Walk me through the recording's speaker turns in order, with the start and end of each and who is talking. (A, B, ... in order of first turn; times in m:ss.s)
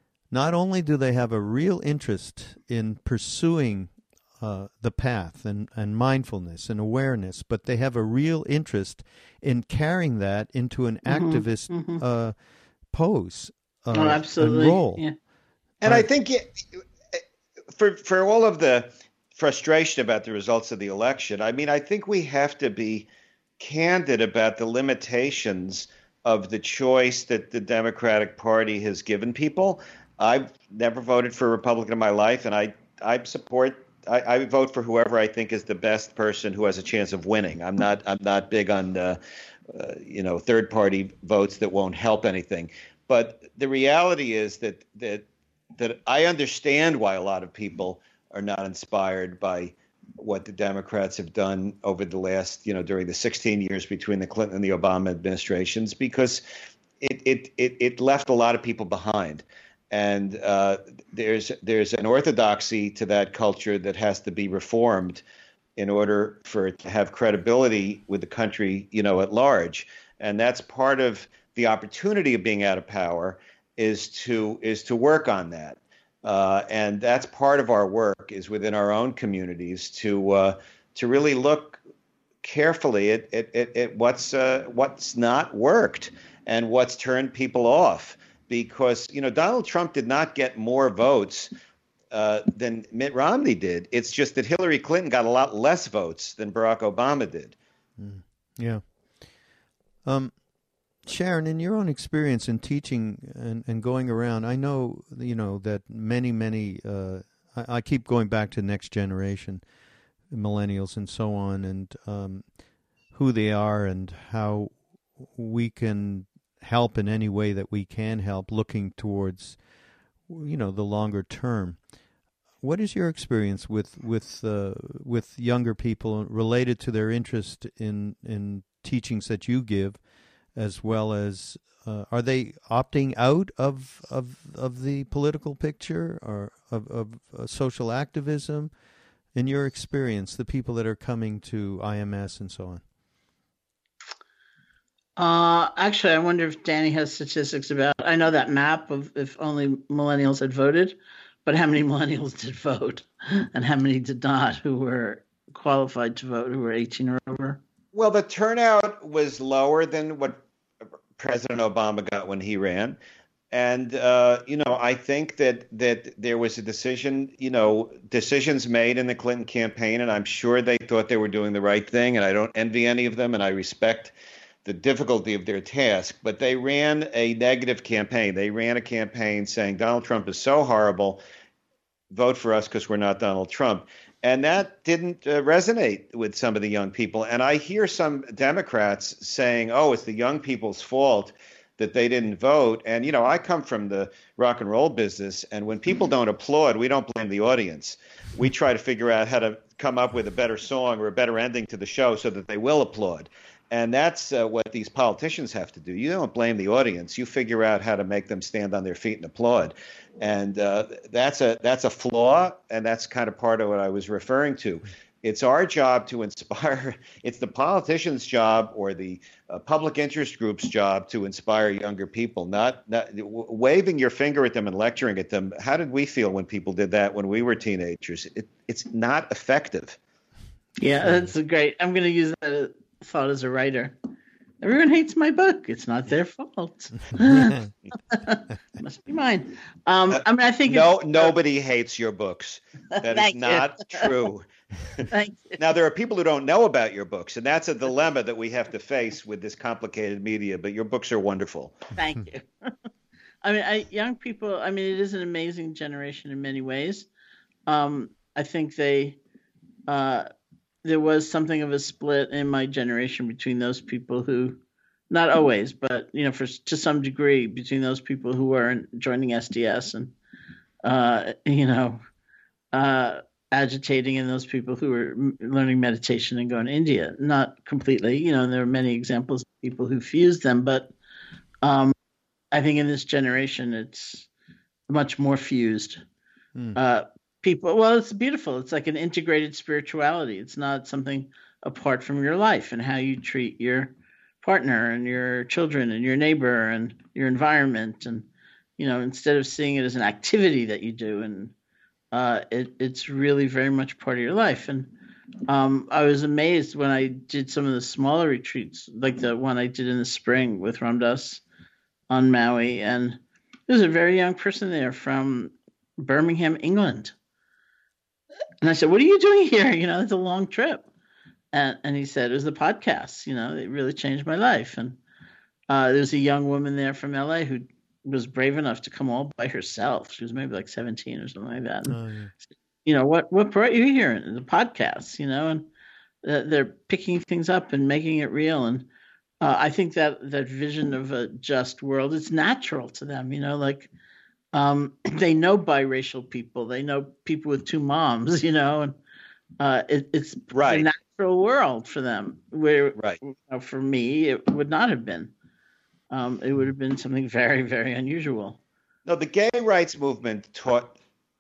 0:00.3-0:12.3 A
0:11.1-0:12.0 B
0:12.9-0:15.0 A
0:13.9-0:15.1 B
0:15.8-0:17.2 C
0:17.7-0:23.1 C
0:23.6-0:39.2 C
0:39.7-0:45.3 C
0:45.8-0:56.4 C
0:57.0-1:05.2 C
1:05.8-1:21.8 C
1:22.4-1:31.5 C
1:32.1-1:37.6 C
1:38.0-1:38.8 A
1:40.0-1:40.4 A
1:41.0-1:49.6 A
1:50.3-1:52.5 A
1:53.1-1:59.6 A
2:00.3-2:01.8 A
2:02.6-2:10.0 A
2:10.6-2:18.7 A
2:19.3-2:22.8 A
2:25.2-2:37.6 B
2:37.9-2:40.4 C
2:41.2-2:43.0 C
2:43.5-3:01.2 C
3:02.1-3:50.0 C
3:50.8-3:54.0 B
3:51.0-3:51.3 A
3:54.6-4:01.3 B
4:00.1-4:11.9 C
4:02.9-4:04.1 B
4:05.1-4:05.6 B
4:12.0-4:12.7 B
4:13.4-4:17.1 B
4:17.7-4:19.2 B
4:19.9-4:20.3 B
4:20.8-4:24.6 B
4:25.1-4:30.1 B
4:30.8-4:32.0 B
4:32.7-4:40.9 B
4:41.6-4:42.0 B
4:42.5-4:44.3 B
4:44.9-4:46.0 B
4:46.8-4:58.3 B
4:58.8-5:01.5 B
5:02.1-5:04.9 B
5:05.5-5:11.4 B
5:12.1-5:17.1 B
5:18.6-5:20.9 B
5:21.5-5:25.0 B
5:25.7-5:32.0 B
5:31.9-5:32.3 A
5:32.8-5:35.7 B
5:36.2-5:38.9 B
5:39.4-5:43.9 B
5:44.5-5:49.0 B
5:49.6-5:55.3 B
5:50.5-5:50.9 C
5:56.1-5:58.6 B
5:59.1-6:01.0 C